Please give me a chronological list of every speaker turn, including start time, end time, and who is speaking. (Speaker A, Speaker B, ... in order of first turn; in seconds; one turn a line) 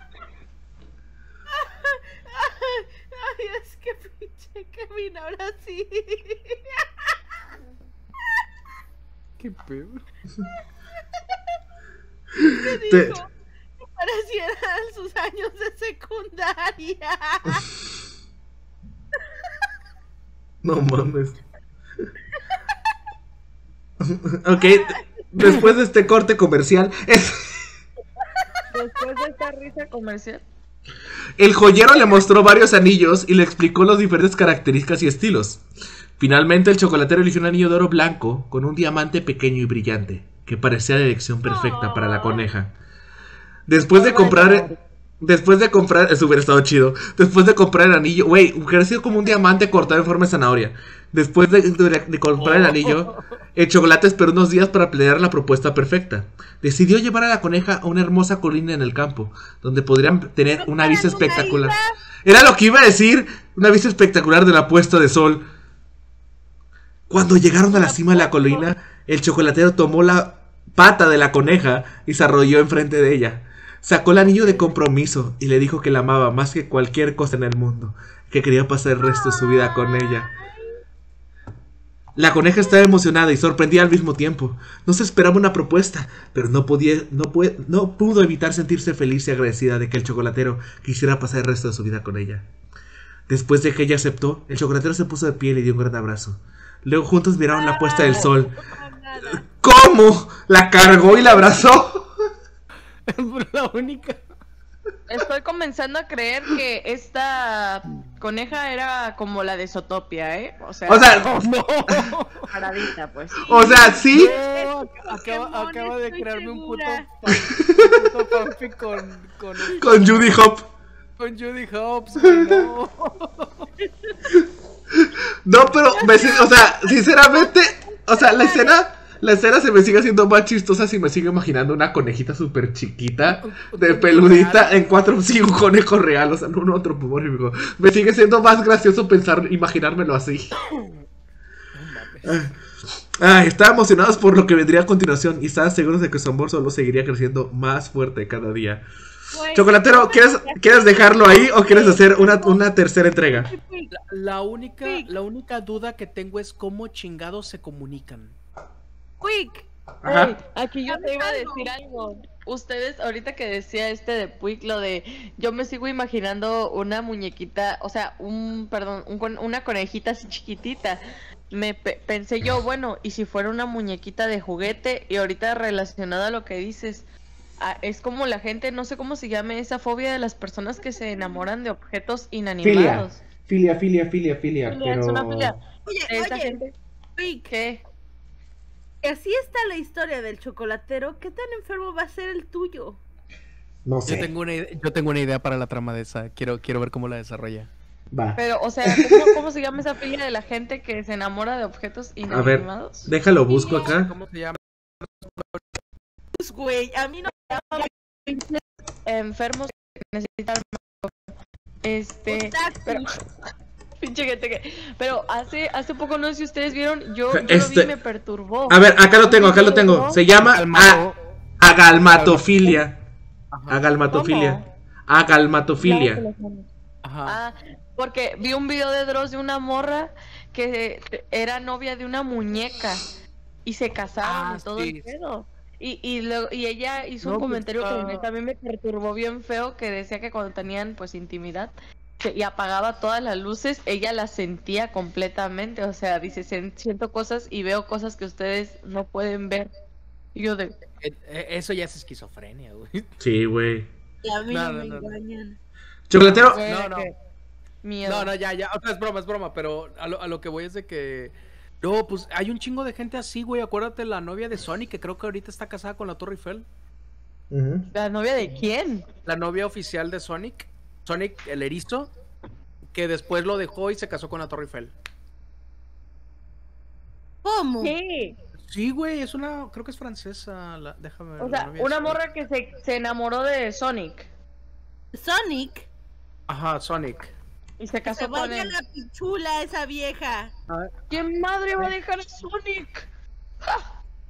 Speaker A: 1.5-7.2
Speaker B: 9.4-10.0
Speaker C: 12.4-13.2
Speaker A: 12.4-17.6
Speaker C: 20.6-21.4
Speaker C: 24.0-27.4
Speaker A: 24.6-25.0
Speaker D: 28.7-30.4
Speaker C: 31.4-35.6
Speaker C: 36.2-42.7
Speaker A: 41.5-42.5
Speaker C: 43.7-44.7
Speaker D: 43.9-44.8
Speaker C: 45.2-61.7
Speaker B: 52.4-53.2
Speaker A: 60.6-61.9
Speaker C: 62.2-65.5
Speaker C: 67.1-80.3
Speaker A: 67.7-68.7
Speaker A: 79.0-80.7
Speaker C: 82.2-92.5
Speaker C: 93.3-98.6
Speaker A: 97.5-99.5
Speaker C: 99.5-102.1
Speaker B: 103.1-104.2
Speaker D: 105.1-111.2
Speaker C: 110.9-111.3
Speaker B: 111.1-112.5
Speaker D: 112.5-113.8
Speaker A: 113.5-117.1
Speaker C: 113.5-114.3
Speaker B: 114.1-120.4
Speaker C: 117.3-118.0
Speaker C: 119.8-120.7
Speaker B: 121.2-123.7
Speaker C: 122.2-122.6
Speaker A: 123.8-124.2
Speaker C: 125.0-140.5
Speaker A: 125.9-128.8
Speaker B: 133.3-134.9
Speaker B: 140.8-141.0
Speaker B: 141.7-142.5
Speaker C: 142.2-142.5
Speaker C: 143.2-148.8
Speaker A: 149.3-152.6
Speaker C: 149.6-153.5
Speaker A: 153.4-153.9
Speaker B: 153.9-158.3
Speaker A: 159.2-159.7
Speaker C: 160.0-160.3
Speaker D: 160.0-177.1
Speaker A: 160.9-161.7
Speaker D: 177.6-183.2
Speaker C: 182.6-185.5
Speaker D: 184.7-185.6
Speaker A: 185.9-186.6
Speaker D: 186.1-186.8
Speaker A: 187.2-187.5
Speaker D: 187.5-187.8
Speaker A: 189.0-193.0
Speaker C: 193.9-194.3
Speaker B: 194.1-197.7
Speaker C: 198.1-199.2
Speaker D: 198.4-203.1
Speaker C: 202.3-204.1
Speaker A: 203.5-203.9
Speaker B: 203.8-205.6
Speaker A: 206.4-207.9
Speaker D: 207.5-211.1
Speaker D: 211.8-213.2
Speaker A: 212.3-213.1
Speaker D: 214.0-220.2
Speaker C: 217.3-217.9
Speaker C: 218.7-221.0
Speaker B: 220.4-221.2
Speaker C: 221.6-223.0
Speaker B: 222.1-222.4
Speaker B: 223.5-223.8
Speaker C: 223.7-226.2
Speaker D: 224.1-224.7
Speaker D: 225.8-226.7
Speaker B: 227.0-227.4
Speaker D: 227.2-233.1
Speaker D: 233.7-249.7
Speaker B: 234.2-235.0
Speaker B: 237.2-238.2
Speaker D: 250.3-250.8
Speaker B: 251.0-253.1
Speaker C: 253.2-253.9
Speaker A: 254.2-255.6
Speaker B: 254.5-255.1
Speaker C: 256.1-256.6
Speaker B: 256.2-257.1
Speaker D: 256.6-257.1
Speaker D: 257.8-258.3
Speaker B: 258.1-266.7
Speaker C: 267.5-267.9
Speaker D: 267.9-269.1
Speaker B: 269.2-272.1
Speaker B: 272.9-274.9
Speaker A: 277.4-277.9
Speaker D: 277.8-278.4
Speaker B: 278.6-282.2
Speaker D: 281.4-284.3
Speaker A: 285.1-285.9
Speaker B: 286.5-287.3
Speaker D: 287.8-288.7
Speaker A: 288.1-290.5
Speaker D: 291.1-293.1